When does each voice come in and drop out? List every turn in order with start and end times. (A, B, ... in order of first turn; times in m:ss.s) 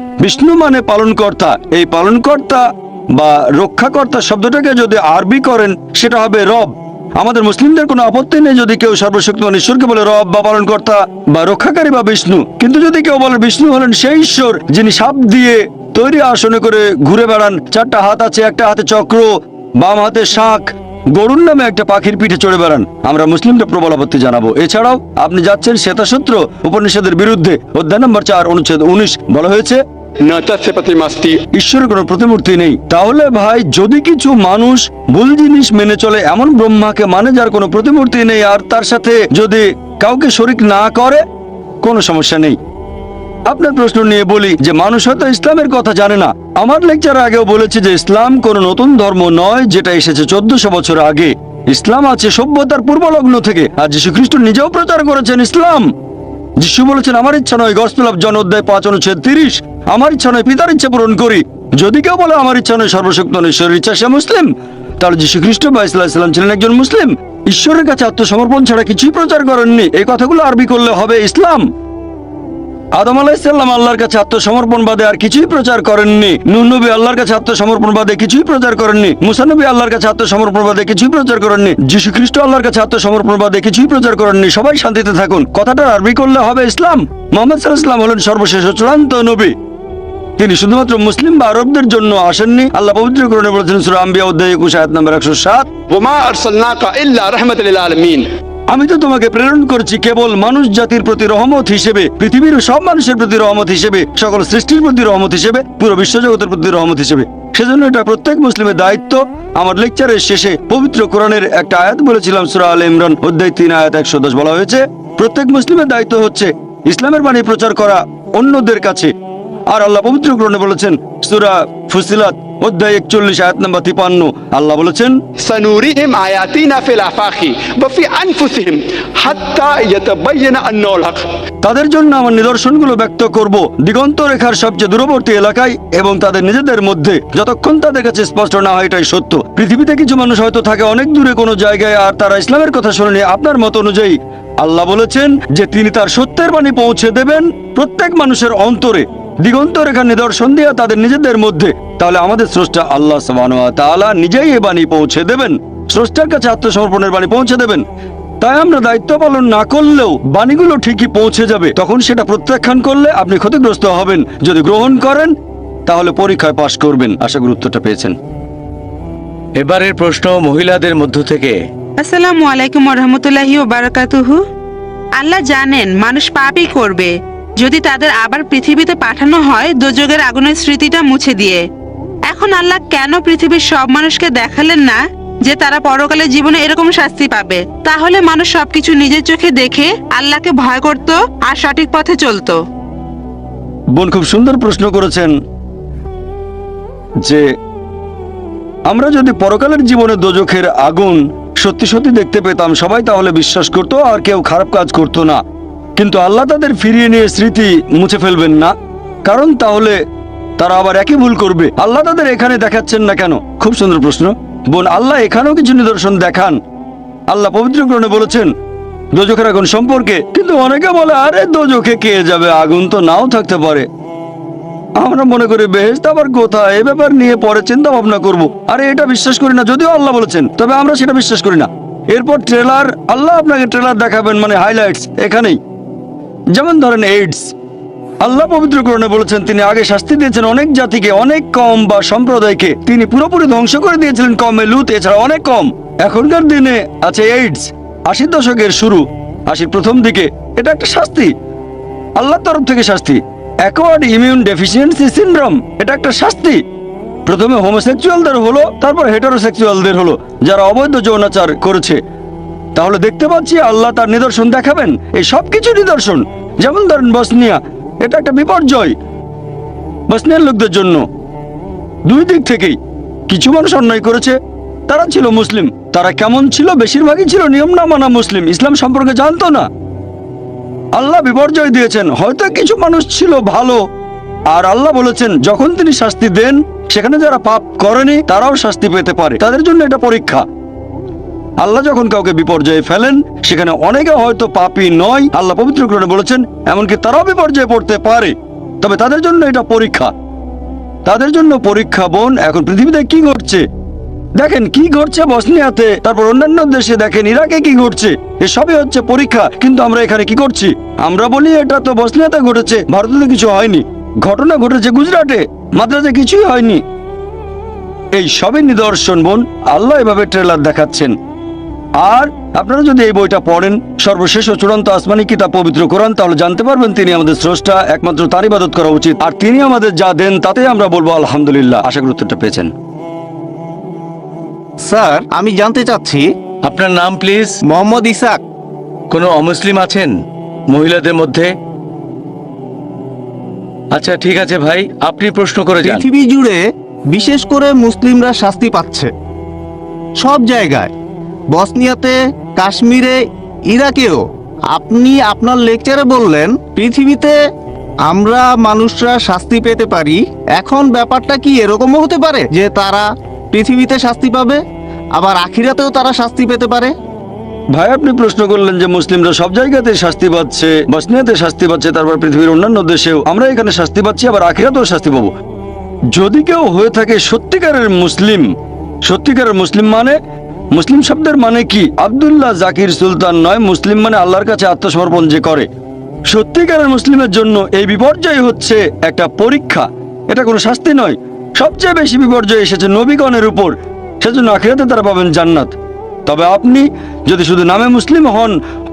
0:00.2-0:29.8 A
0:30.2-0:31.4 B
0:31.5-0:41.2 A
0:41.8-0:42.6 A
0:43.5-0:55.9 A
0:56.6-1:11.7 A
1:12.9-1:29.5 A
1:30.4-1:35.7 A
1:35.9-1:38.2 B
1:38.7-1:59.1 A
1:59.7-2:05.2 A
2:05.4-2:11.2 B
2:11.6-2:37.8 A
2:38.4-2:45.3 A
2:45.8-2:48.2 A
2:49.6-2:51.6 C
2:52.0-2:54.4 D
2:55.2-3:01.6 D
3:02.3-3:12.6 D
3:13.9-3:15.3 A
3:18.9-3:25.4 A
3:26.0-3:28.7 A
3:29.2-3:30.0 A
3:30.6-3:36.6 A
3:37.3-3:38.5 A
3:39.1-3:43.9 A
3:45.0-3:55.6 A
3:56.5-3:57.5 A
3:58.2-4:11.3 A
4:12.2-4:16.6 A
4:17.3-4:22.0 A
4:22.7-4:29.0 A
4:30.1-4:31.0 A
4:32.0-4:32.8 A
4:33.3-4:34.4 A
4:34.9-4:39.7 A
4:41.0-4:43.8 A
4:44.5-4:50.4 A
4:51.6-5:00.1 A
5:01.0-5:03.6 A
5:04.4-5:16.8 A
5:18.1-5:21.1 A
5:22.0-5:32.7 A
5:34.8-5:36.3 E
5:36.6-5:37.6 C
5:37.7-5:38.4 E
5:39.1-5:41.5 C
5:43.9-5:46.1 C
5:45.8-5:49.1 E
5:50.2-5:50.9 E
5:51.5-5:57.4 E
5:58.0-6:04.6 E
6:05.1-6:06.9 E
6:07.7-6:15.3 A
6:16.1-6:18.5 A
6:19.0-6:20.2 A
6:20.7-6:25.7 A
6:26.3-6:35.7 A
6:36.2-6:38.6 A